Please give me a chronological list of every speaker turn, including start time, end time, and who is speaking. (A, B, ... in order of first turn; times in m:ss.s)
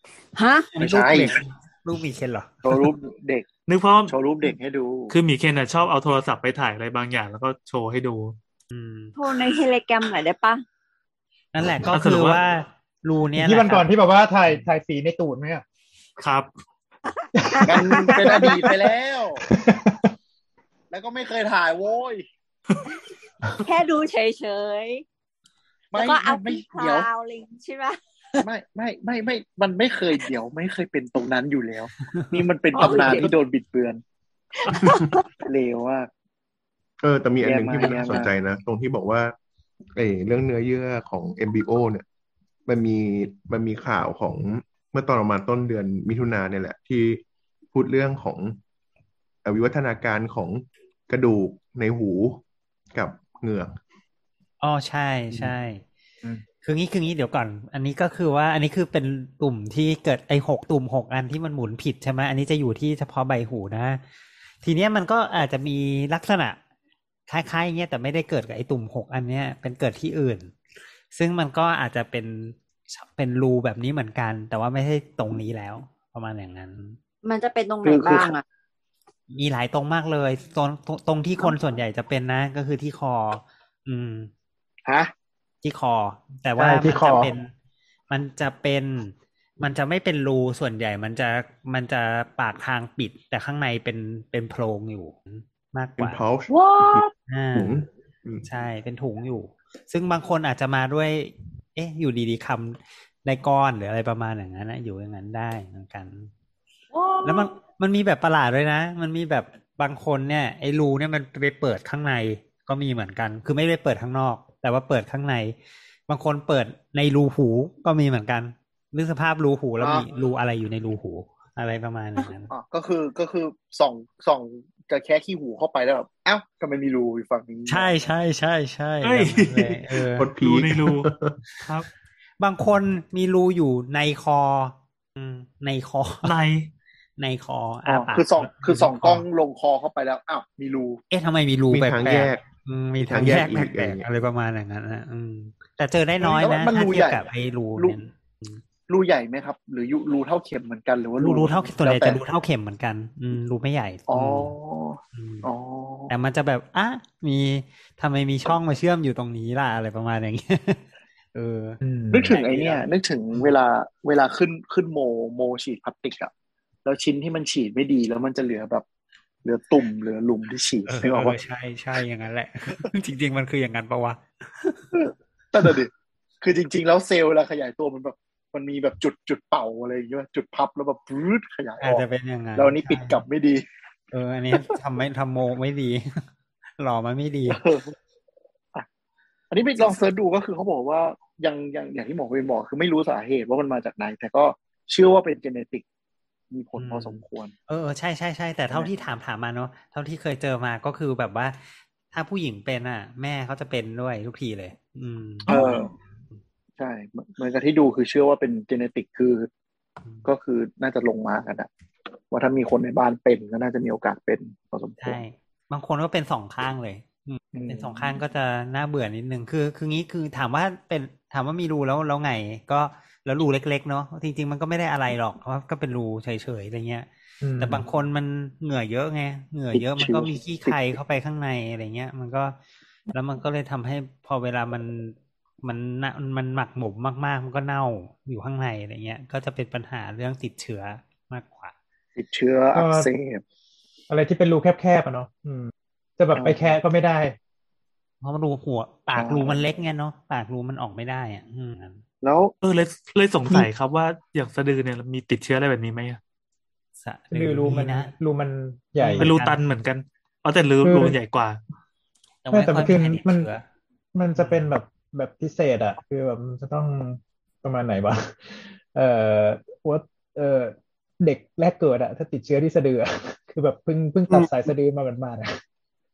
0:00.4-0:00.7 A
0:00.7-0:02.9 B
0:00.8-0:01.4 C
0:02.6-0:03.5 C
0:03.7-0:04.1 D
0:04.1-0:05.2 C
0:05.1-0:08.4 D
0:08.7-0:09.2 B
0:09.2-0:10.6 A
0:11.5-0:13.9 B
0:11.9-0:12.4 D
0:13.4-0:15.6 E
0:16.2-0:16.5 D
0:17.1-0:18.8 A
0:17.4-0:18.6 E
0:17.7-0:19.4 C
0:19.4-0:20.0 E
0:20.9-0:22.3 C
0:23.6-0:25.0 A
0:25.9-0:27.1 C
0:26.0-0:28.4 A
0:28.4-0:34.0 C
0:32.7-0:33.3 A
0:34.6-0:35.3 A
0:35.4-0:36.1 C
0:37.0-0:39.3 F
0:37.4-0:38.3 C
0:40.0-0:42.0 F
0:42.7-0:48.6 F
0:49.4-0:52.4 F
0:52.9-0:53.7 F
0:54.6-0:55.8 B
0:56.6-1:04.0 B
1:04.6-1:06.6 B
1:07.3-1:10.6 B
1:11.1-1:17.0 B
1:17.2-1:18.4 A
1:17.8-1:18.3 C
1:19.3-1:24.3 B
1:24.9-1:25.1 C
1:25.6-1:27.5 B
1:26.6-1:27.3 E
1:28.1-1:36.2 B
1:36.0-1:38.4 F
1:36.5-1:37.1 A
1:37.3-1:37.8 B
1:38.4-1:46.3 B
1:46.9-1:47.5 A
1:47.2-1:55.6 B
1:56.1-2:02.5 B
1:59.8-2:00.1 C
2:02.5-2:08.0 C
2:07.7-2:10.3 B
2:09.0-2:09.8 D
2:10.2-2:11.4 F
2:10.4-2:11.9 D
2:12.4-2:16.3 B
2:16.2-2:16.7 D
2:17.2-2:19.3 B
2:17.9-2:21.0 C
2:21.1-2:28.6 B
2:21.7-2:22.4 F
2:23.0-2:24.0 F
2:26.2-2:28.0 C
2:28.9-2:32.2 C
2:31.2-2:34.5 B
2:34.1-2:36.1 C
2:35.2-2:35.5 B
2:36.1-2:43.6 B
2:41.8-2:42.4 E
2:42.1-2:46.3 C
2:46.8-2:48.8 C
2:49.4-2:51.4 C
2:50.9-2:54.9 B
2:54.9-2:55.9 C
2:56.4-3:02.0 C
3:01.8-3:03.2 B
3:02.6-3:03.6 C
3:04.1-3:06.2 B
3:06.8-3:07.6 B
3:07.5-3:08.0 C
3:09.5-3:15.8 C
3:16.5-3:17.5 C
3:16.8-3:25.8 B
3:25.5-3:25.9 C
3:26.8-3:29.5 C
3:30.2-3:31.7 C
3:32.3-3:35.2 C
3:35.0-3:47.1 B
3:37.5-3:38.2 C
3:47.4-3:47.8 E
3:47.6-3:52.6 B
3:49.7-3:50.8 C
3:53.1-4:01.8 B
4:02.2-4:03.4 C
4:02.7-4:03.1 E
4:04.1-4:07.4 E
4:06.4-4:06.8 C
4:08.2-4:12.0 B
4:09.1-4:09.6 C
4:12.2-4:12.5 C
4:12.6-4:16.2 D
4:17.0-4:18.1 B
4:17.3-4:19.3 E
4:19.0-4:19.6 B
4:19.2-4:21.6 D
4:20.8-4:21.2 E
4:22.4-4:23.6 B
4:22.5-4:23.5 E
4:24.2-4:35.5 E
4:24.4-4:24.7 B